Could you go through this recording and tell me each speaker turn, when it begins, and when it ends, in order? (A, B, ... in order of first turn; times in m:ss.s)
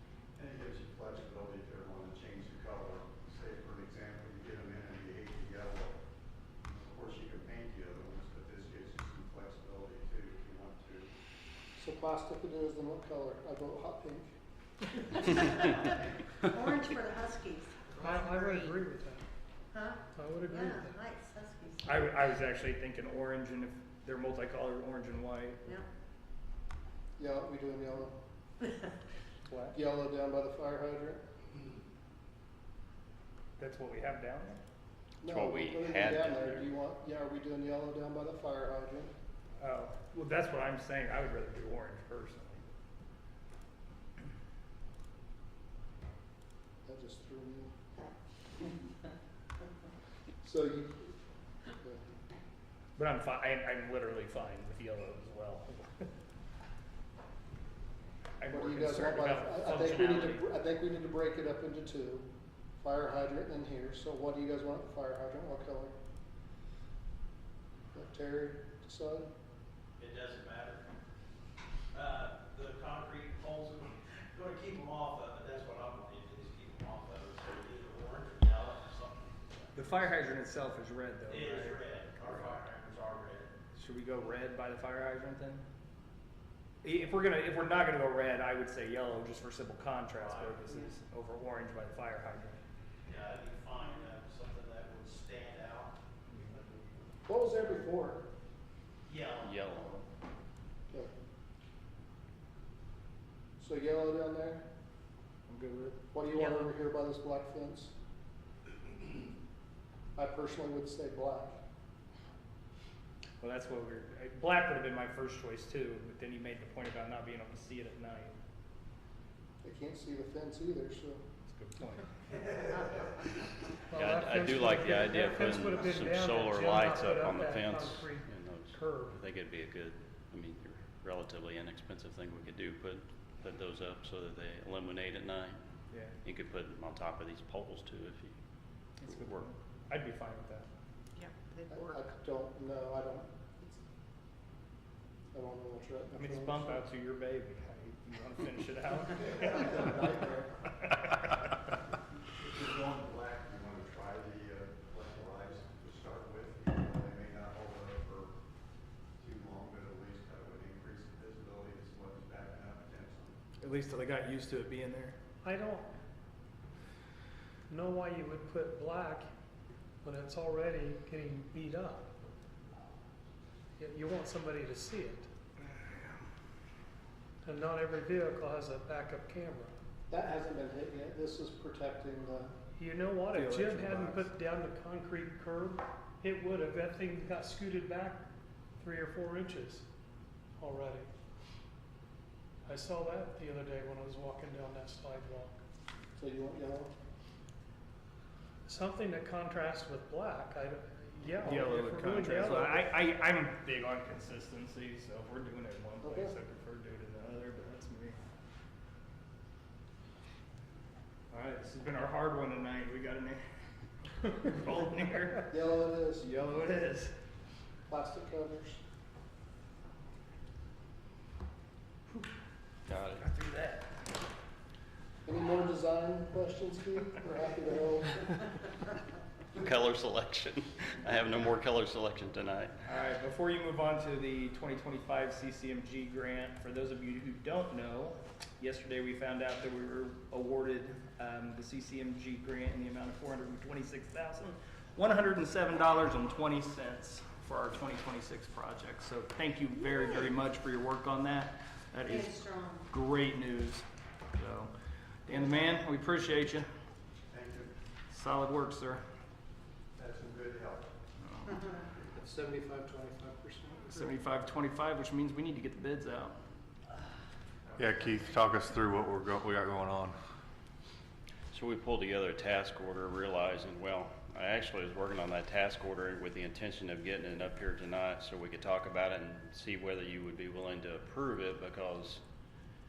0:00.4-0:06.0 A
0:06.7-0:11.1 A
0:11.8-0:14.3 B
0:15.4-0:15.8 C
0:16.4-0:18.8 C
0:17.9-0:19.3 D
0:19.7-0:22.2 C
0:20.1-0:21.0 D
0:21.8-0:25.6 E
0:27.2-0:28.2 B
0:29.7-0:31.2 B
0:33.6-0:34.6 E
0:35.2-0:39.1 B
0:35.2-0:36.7 F
0:39.6-0:42.6 E
0:46.9-0:47.7 B
0:50.4-0:51.1 B
0:53.0-0:56.1 E
0:58.4-1:00.4 E
0:58.5-1:02.3 B
1:02.8-1:06.0 B
1:07.9-1:09.3 B
1:10.0-1:10.9 G
1:11.9-1:19.7 G
1:19.7-1:21.8 E
1:21.3-1:23.5 G
1:23.8-1:25.6 E
1:26.8-1:32.6 E
1:30.2-1:30.7 G
1:33.1-1:36.8 G
1:37.3-1:38.3 B
1:39.1-1:39.6 G
1:39.4-1:39.9 F
1:43.6-1:44.7 B
1:45.5-1:46.0 E
1:46.1-1:47.9 B
1:50.2-1:51.6 B
1:53.4-1:58.4 E
1:59.6-2:01.2 B
2:01.5-2:02.1 E
2:03.9-2:09.2 D
2:03.9-2:15.6 F
2:16.2-2:18.4 F
2:19.0-2:20.7 E
2:19.1-2:19.4 F
2:21.2-2:22.0 C
2:21.7-2:23.8 B
2:25.3-2:26.8 B
2:26.2-2:30.0 E
2:29.1-2:30.5 B
2:30.8-2:31.5 E
2:32.3-2:38.3 A
2:39.2-2:43.4 A
2:43.6-2:45.2 E
2:45.4-2:45.9 D
2:47.7-2:49.3 D
2:50.0-2:52.1 D
2:53.8-2:55.3 D
2:55.6-2:56.2 E
2:57.4-2:59.7 D
3:00.1-3:02.5 B
3:02.8-3:08.3 D
3:03.3-3:04.3 E
3:08.8-3:09.8 D
3:10.6-3:11.1 D
3:12.7-3:15.6 D
3:16.2-3:16.9 B
3:18.7-3:22.9 D
3:21.4-3:28.2 E
3:26.0-3:26.3 B
3:31.3-3:33.4 E
3:34.3-3:35.5 E
3:35.5-3:36.3 B
3:36.2-3:37.1 E
3:37.9-3:38.8 B
3:42.9-3:43.2 F
3:43.2-3:43.9 E
3:45.3-3:48.3 B
3:49.5-3:52.8 F
3:52.9-4:14.7 E
4:12.1-4:12.9 C
4:15.2-4:16.7 E
4:17.3-4:17.7 A
4:18.1-4:19.0 E
4:20.0-4:20.9 A
4:21.2-4:21.5 E
4:22.2-4:24.0 B
4:23.9-4:26.4 E
4:27.6-4:28.2 A
4:27.8-4:30.2 H
4:31.5-4:42.2 F